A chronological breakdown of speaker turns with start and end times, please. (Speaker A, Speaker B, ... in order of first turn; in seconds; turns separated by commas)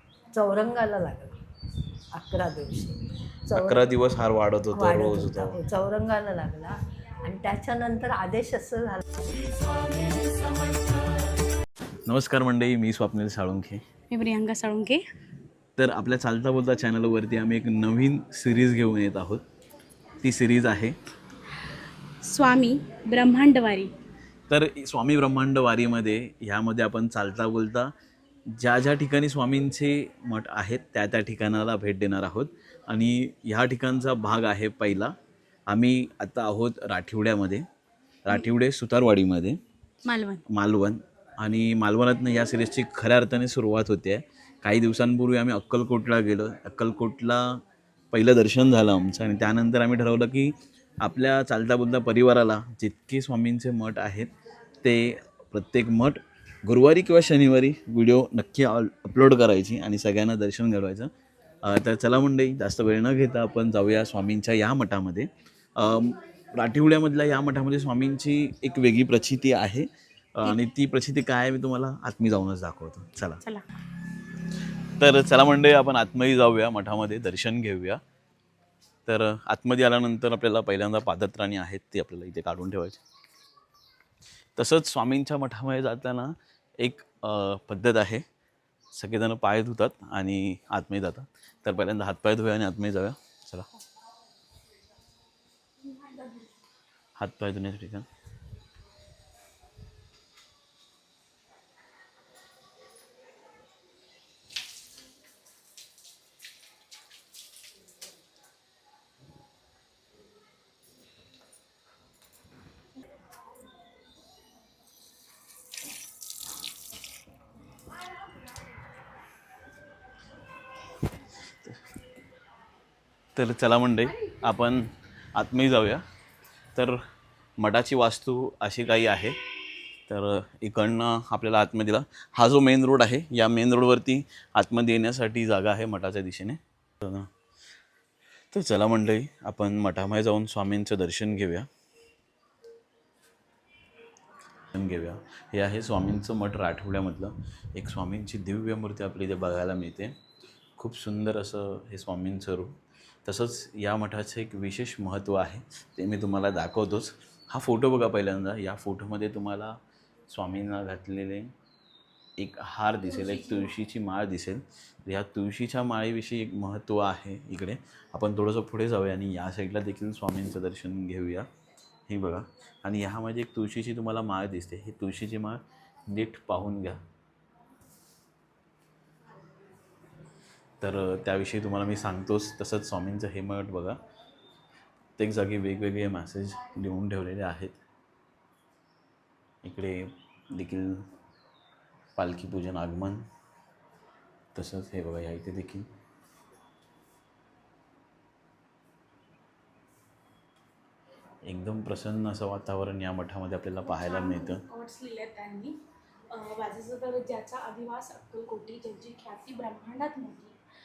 Speaker A: 0.3-1.4, Speaker A: 2.1-3.9, Speaker B: 3.5-5.6, Speaker A: 4.7-9.0, Speaker B: 12.1-13.8, Speaker C: 14.1-15.0, Speaker B: 15.8-19.4, Speaker B: 20.2-21.0, Speaker C: 22.2-23.9, Speaker B: 24.5-27.9, Speaker B: 28.5-35.2, Speaker B: 35.7-37.7, Speaker B: 38.3-39.6, Speaker C: 40.0-40.4, Speaker B: 40.5-61.1, Speaker B: 61.6-73.4, Speaker C: 73.4-73.7, Speaker B: 75.0-78.0, Speaker B: 79.1-83.0, Speaker B: 84.6-88.2, Speaker B: 88.9-93.7, Speaker C: 95.8-96.6, Speaker B: 97.2-98.1, Speaker B: 123.3-126.0, Speaker B: 126.8-127.0, Speaker B: 127.6-129.4, Speaker B: 130.1-137.3, Speaker B: 138.5-141.7, Speaker B: 144.7-150.2, Speaker B: 150.8-161.5, Speaker B: 162.4-171.5, Speaker C: 163.1-163.8, Speaker B: 172.1-177.0, Speaker B: 180.8-184.0, Speaker B: 185.2-187.8, Speaker B: 189.6-191.1, Speaker B: 192.2-193.3, Speaker B: 194.5-195.9, Speaker B: 201.4-204.6, Speaker C: 203.8-210.6